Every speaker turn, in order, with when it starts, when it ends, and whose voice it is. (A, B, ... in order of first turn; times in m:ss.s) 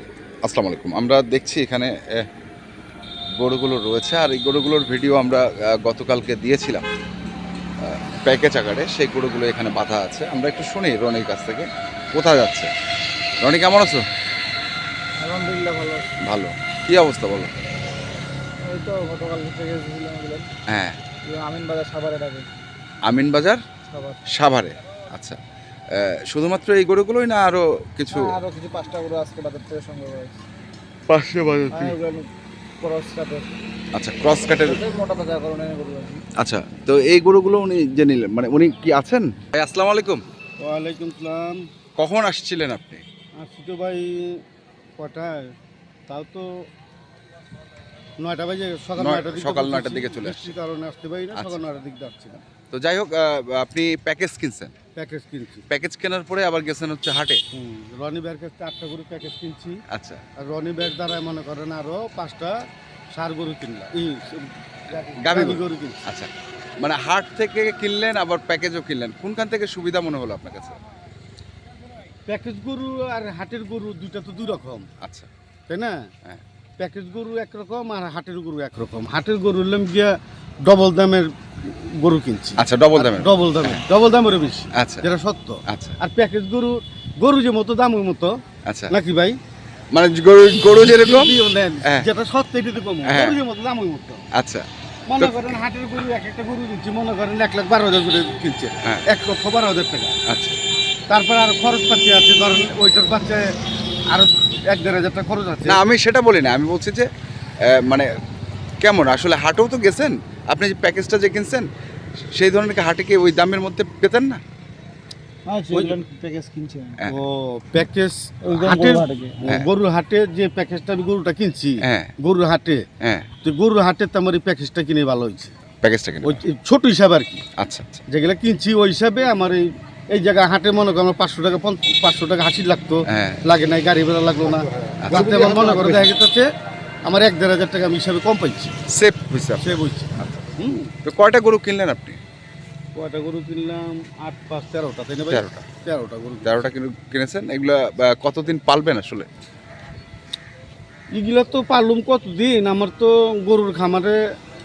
0:00.4-0:02.2 A
0:03.4-0:06.8 A
0:07.8-0:12.7 A
0:13.4-0:14.0 A
0:15.2-0:16.1 B
0:16.2-0:17.5 A
0:18.7-0:20.5 B
0:20.7-0:21.0 A
0:21.3-0:22.5 B
0:23.0-0:23.6 A
0:23.9-0:24.2 B
0:24.3-0:25.4 A
0:25.9-0:28.3 A
0:28.1-0:30.4 B
0:31.1-0:31.9 A
0:31.7-0:32.3 B
0:32.8-0:33.5 B
0:34.0-0:34.8 A
0:34.4-0:36.2 B
0:36.4-0:40.2 A
0:40.6-0:41.6 C
0:42.0-0:43.0 A
0:43.4-0:44.4 C
0:45.0-0:45.5 C
0:46.1-0:46.5 C
0:48.2-0:52.4 C
0:49.0-0:50.6 A
0:51.3-0:51.6 A
0:52.7-0:54.7 A
0:55.0-0:55.6 C
0:55.7-0:57.4 A
0:57.5-0:59.8 C
0:59.9-1:00.2 A
1:00.4-1:02.6 C
1:03.1-1:06.0 C
1:04.9-1:10.8 A
1:12.3-1:14.9 C
1:15.0-1:15.3 A
1:15.7-1:16.0 C
1:16.8-1:28.3 C
1:22.6-1:23.8 A
1:24.7-1:25.1 A
1:25.7-1:26.0 A
1:28.6-1:29.0 A
1:28.9-1:29.4 C
1:29.9-1:32.1 A
1:30.8-1:34.2 C
1:33.0-1:33.4 A
1:34.3-1:35.6 A
1:35.1-1:40.2 C
1:40.3-1:40.6 A
1:41.1-1:43.5 C
1:44.1-1:45.8 C
1:45.6-1:47.1 A
1:47.7-1:48.1 A
1:48.8-1:51.6 A
1:52.4-1:54.4 A
1:55.4-1:57.0 B
1:57.1-2:02.8 C
1:58.4-1:59.4 B
2:01.8-2:02.1 A
2:03.0-2:03.3 A
2:03.4-2:05.5 C
2:05.8-2:06.4 A
2:06.2-2:07.4 C
2:07.6-2:08.0 A
2:08.1-2:16.4 C
2:13.1-2:13.4 A
2:15.0-2:16.0 A
2:15.1-2:16.1 B
2:17.0-2:18.7 C
2:18.9-2:22.2 A
2:19.6-2:20.9 C
2:23.0-2:26.6 C
2:25.3-2:25.6 A
2:26.4-2:29.3 A
2:31.1-2:34.2 C